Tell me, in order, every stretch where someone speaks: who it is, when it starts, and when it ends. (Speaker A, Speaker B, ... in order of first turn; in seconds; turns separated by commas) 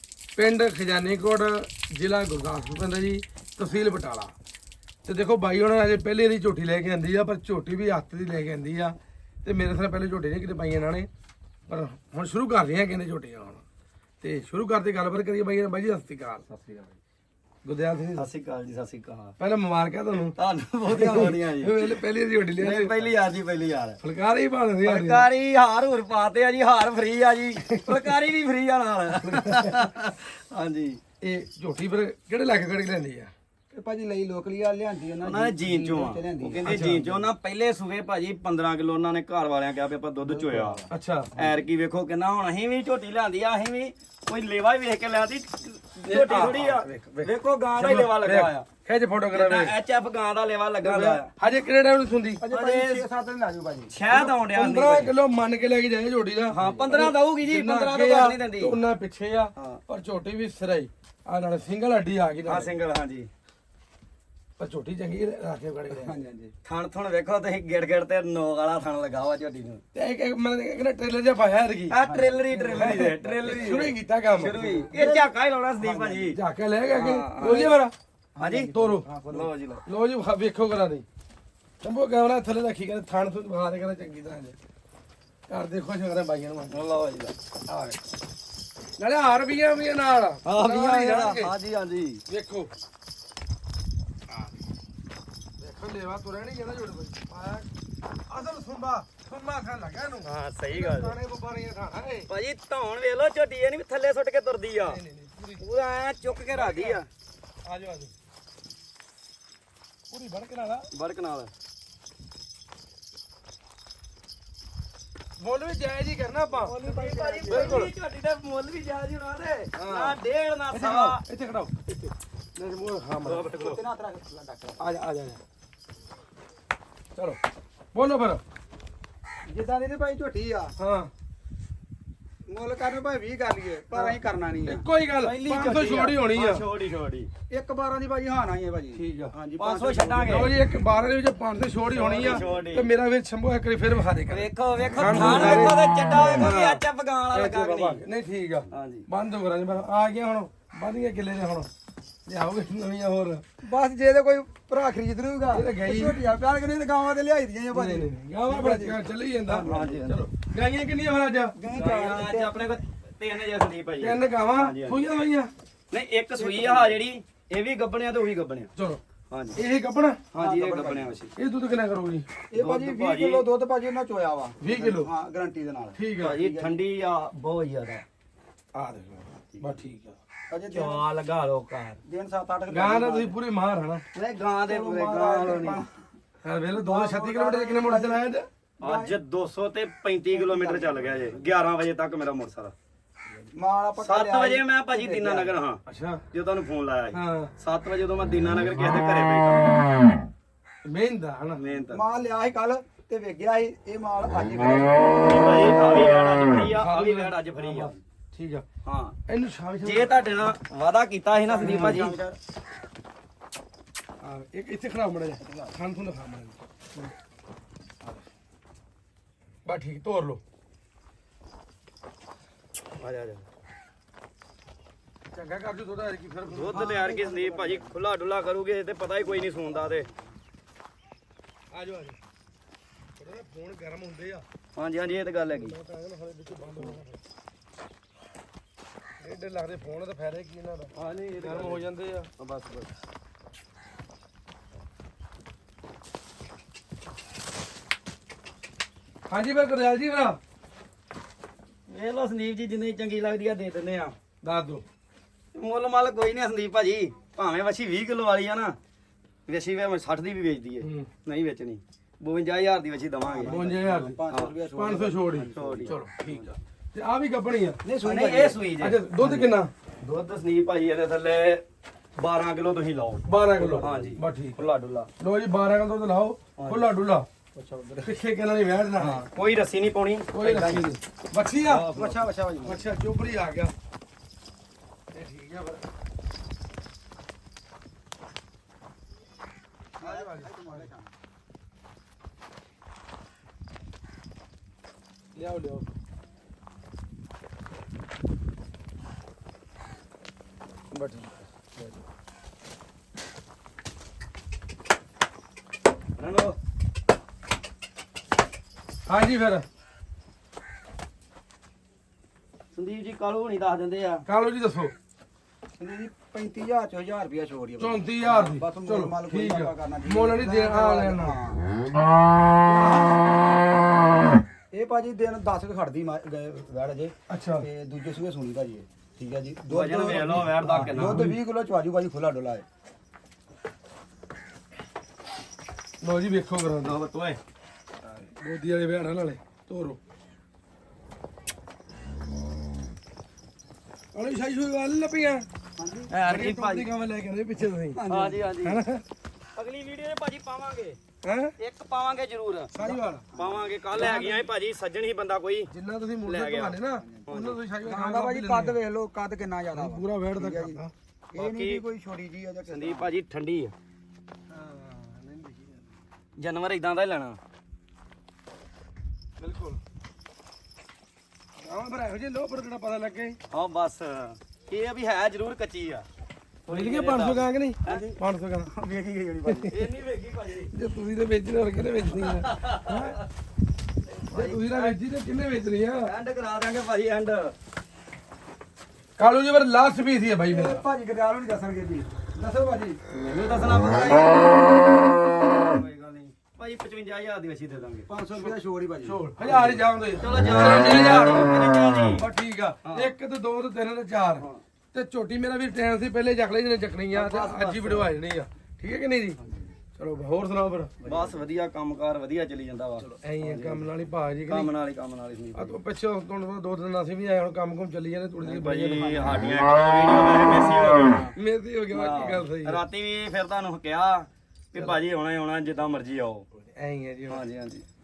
Speaker A: 0.4-4.3, Speaker A: 5.0-11.1, Speaker A: 11.7-13.6, Speaker A: 14.2-16.5, Speaker B: 16.5-17.0, Speaker A: 17.6-18.3, Speaker B: 18.1-19.3, Speaker A: 19.4-20.4, Speaker B: 20.4-22.0, Speaker A: 20.9-23.1, Speaker B: 22.6-24.0, Speaker A: 24.0-25.2, Speaker B: 24.8-31.0, Speaker A: 27.8-28.1, Speaker A: 29.2-29.7, Speaker A: 31.2-33.3, Speaker C: 33.7-37.2, Speaker B: 35.2-40.8, Speaker A: 36.6-37.0, Speaker C: 40.2-41.5, Speaker A: 40.9-41.3, Speaker B: 41.3-48.7, Speaker A: 46.1-49.7, Speaker B: 49.3-51.3, Speaker A: 50.8-52.4, Speaker C: 52.4-53.9, Speaker B: 52.5-53.0, Speaker B: 53.9-55.1, Speaker A: 54.1-62.7, Speaker B: 56.5-58.8, Speaker C: 56.6-56.9, Speaker B: 59.5-59.8, Speaker B: 62.5-63.3, Speaker A: 64.6-66.2, Speaker C: 65.9-66.5, Speaker B: 66.6-69.8, Speaker A: 69.9-72.0, Speaker B: 71.9-76.4, Speaker C: 72.0-76.3, Speaker A: 72.7-74.9, Speaker A: 76.3-77.9, Speaker B: 76.9-77.8, Speaker C: 78.3-79.5, Speaker B: 78.4-78.7, Speaker A: 78.7-79.1, Speaker B: 79.3-79.8, Speaker A: 79.8-81.0, Speaker A: 81.8-84.5, Speaker A: 85.5-86.9, Speaker B: 86.7-87.3, Speaker A: 89.0-91.5, Speaker B: 90.4-92.2, Speaker A: 92.3-92.7, Speaker A: 95.6-97.7, Speaker A: 98.3-102.3, Speaker B: 100.2-101.2, Speaker B: 102.3-105.0, Speaker A: 104.8-105.6, Speaker B: 105.6-107.1, Speaker A: 106.5-107.0, Speaker A: 107.6-108.1, Speaker A: 110.1-110.9, Speaker B: 110.9-111.5, Speaker A: 115.4-116.8, Speaker C: 116.6-117.9, Speaker B: 116.7-121.2, Speaker A: 117.5-117.9, Speaker A: 119.7-120.2, Speaker A: 120.7-123.5, Speaker B: 123.2-123.8, Speaker C: 123.5-124.8, Speaker A: 124.8-125.4, Speaker A: 127.9-128.4, Speaker C: 129.5-130.7, Speaker A: 130.8-131.1, Speaker C: 132.5-134.9, Speaker A: 133.9-136.7, Speaker B: 135.2-137.3, Speaker C: 137.5-140.5, Speaker A: 138.9-139.3, Speaker B: 139.6-140.5, Speaker A: 140.3-146.8, Speaker B: 141.9-142.9, Speaker B: 144.3-148.1, Speaker A: 147.3-151.7, Speaker B: 148.7-149.1, Speaker A: 152.2-153.4, Speaker C: 153.6-160.1, Speaker A: 155.5-156.2, Speaker A: 157.7-161.6, Speaker B: 159.6-160.2, Speaker C: 161.5-162.8, Speaker B: 161.7-165.0, Speaker A: 164.0-165.5, Speaker B: 165.9-168.7, Speaker C: 166.3-167.0, Speaker A: 168.8-169.0, Speaker B: 169.3-169.6, Speaker A: 169.5-170.2, Speaker B: 170.3-171.3, Speaker C: 170.3-171.2, Speaker A: 171.3-172.3, Speaker C: 172.5-176.8, Speaker B: 172.6-173.5, Speaker A: 174.6-175.1, Speaker A: 175.9-176.4, Speaker B: 176.2-178.0, Speaker A: 178.7-180.2, Speaker B: 179.5-179.8, Speaker C: 180.5-181.0, Speaker B: 180.7-182.0, Speaker C: 182.0-183.3, Speaker A: 182.7-184.0, Speaker B: 184.1-185.8, Speaker C: 184.6-186.0, Speaker A: 186.4-188.5, Speaker C: 186.7-188.2, Speaker C: 188.8-189.2, Speaker B: 188.8-192.7, Speaker C: 190.3-191.3, Speaker C: 193.5-195.6, Speaker B: 194.0-199.8, Speaker A: 195.8-196.2, Speaker A: 197.1-197.5, Speaker A: 200.8-201.6, Speaker B: 201.6-202.0, Speaker C: 201.9-205.5, Speaker B: 205.2-208.0, Speaker A: 206.7-208.7, Speaker B: 208.8-209.2, Speaker A: 209.3-210.3, Speaker B: 209.8-212.2, Speaker C: 211.5-212.4, Speaker A: 211.6-212.1, Speaker A: 214.2-217.1, Speaker C: 215.4-215.7, Speaker A: 219.7-220.4, Speaker B: 223.0-223.4, Speaker A: 225.3-226.9, Speaker B: 226.5-230.1, Speaker C: 226.7-227.9, Speaker C: 229.2-230.3, Speaker A: 231.7-232.2, Speaker A: 233.2-234.4, Speaker B: 234.8-235.7, Speaker A: 235.5-237.2, Speaker A: 239.2-242.3, Speaker B: 240.9-241.8, Speaker B: 242.4-242.9, Speaker A: 249.3-250.4, Speaker B: 251.9-254.2, Speaker A: 254.4-254.8, Speaker B: 255.5-258.8, Speaker B: 259.5-263.6, Speaker A: 260.8-261.1, Speaker C: 263.2-265.9, Speaker A: 263.4-264.2, Speaker A: 264.7-267.8, Speaker B: 265.5-266.5, Speaker C: 267.8-268.6, Speaker B: 268.0-269.5, Speaker A: 268.8-269.7, Speaker B: 270.0-271.6, Speaker B: 272.1-275.1, Speaker A: 273.2-274.6, Speaker C: 273.6-274.1, Speaker A: 275.2-277.2, Speaker B: 276.6-276.9, Speaker C: 277.5-278.1, Speaker A: 278.0-279.2, Speaker B: 279.0-280.9, Speaker A: 280.3-281.9, Speaker B: 281.6-282.3, Speaker C: 281.9-282.8, Speaker A: 282.6-283.7, Speaker A: 285.1-285.8, Speaker A: 290.0-290.9, Speaker C: 290.0-291.1, Speaker A: 295.3-295.9, Speaker A: 300.9-301.9, Speaker B: 306.2-306.6, Speaker A: 309.1-309.6, Speaker B: 312.7-314.2, Speaker A: 314.2-314.9, Speaker C: 315.8-321.6, Speaker A: 317.8-321.4, Speaker A: 322.8-323.2, Speaker C: 324.7-332.6, Speaker A: 327.3-327.6, Speaker B: 329.7-331.3, Speaker A: 330.1-331.4, Speaker A: 336.0-336.9, Speaker B: 336.8-337.4, Speaker A: 338.2-340.0, Speaker A: 344.1-345.4, Speaker C: 345.8-346.1, Speaker B: 346.1-346.9, Speaker A: 346.2-348.0, Speaker C: 347.9-348.4, Speaker B: 348.1-348.8, Speaker A: 348.6-349.0, Speaker B: 349.5-351.0, Speaker A: 351.2-351.5, Speaker B: 351.6-352.7, Speaker A: 352.7-353.2, Speaker C: 352.8-354.1, Speaker B: 353.3-355.7, Speaker A: 353.9-354.5, Speaker A: 355.7-358.8, Speaker B: 356.2-357.6, Speaker C: 357.0-363.1, Speaker A: 359.7-360.9, Speaker B: 361.4-361.8, Speaker B: 362.7-363.7, Speaker A: 364.5-365.9, Speaker B: 366.4-367.4, Speaker A: 369.4-369.8, Speaker A: 371.6-373.4, Speaker B: 373.5-376.1, Speaker B: 376.6-378.2, Speaker A: 376.7-378.7, Speaker C: 378.7-379.8, Speaker B: 379.6-380.7, Speaker A: 380.7-383.2, Speaker B: 382.1-383.2, Speaker B: 384.1-384.9, Speaker A: 384.3-386.1, Speaker B: 386.0-387.5, Speaker A: 389.2-390.8, Speaker C: 390.5-393.0, Speaker B: 393.1-398.1, Speaker C: 398.1-399.2, Speaker A: 399.0-401.5, Speaker B: 399.4-402.2, Speaker A: 402.2-409.4, Speaker B: 402.8-403.1, Speaker B: 407.1-408.1, Speaker A: 409.9-411.0, Speaker C: 411.0-411.4, Speaker B: 411.0-413.9, Speaker A: 413.0-414.7, Speaker B: 414.5-415.8, Speaker A: 415.5-419.4, Speaker B: 418.4-421.3, Speaker C: 419.0-419.6, Speaker A: 421.3-422.8, Speaker B: 421.9-426.4, Speaker A: 426.6-427.4, Speaker B: 427.3-427.8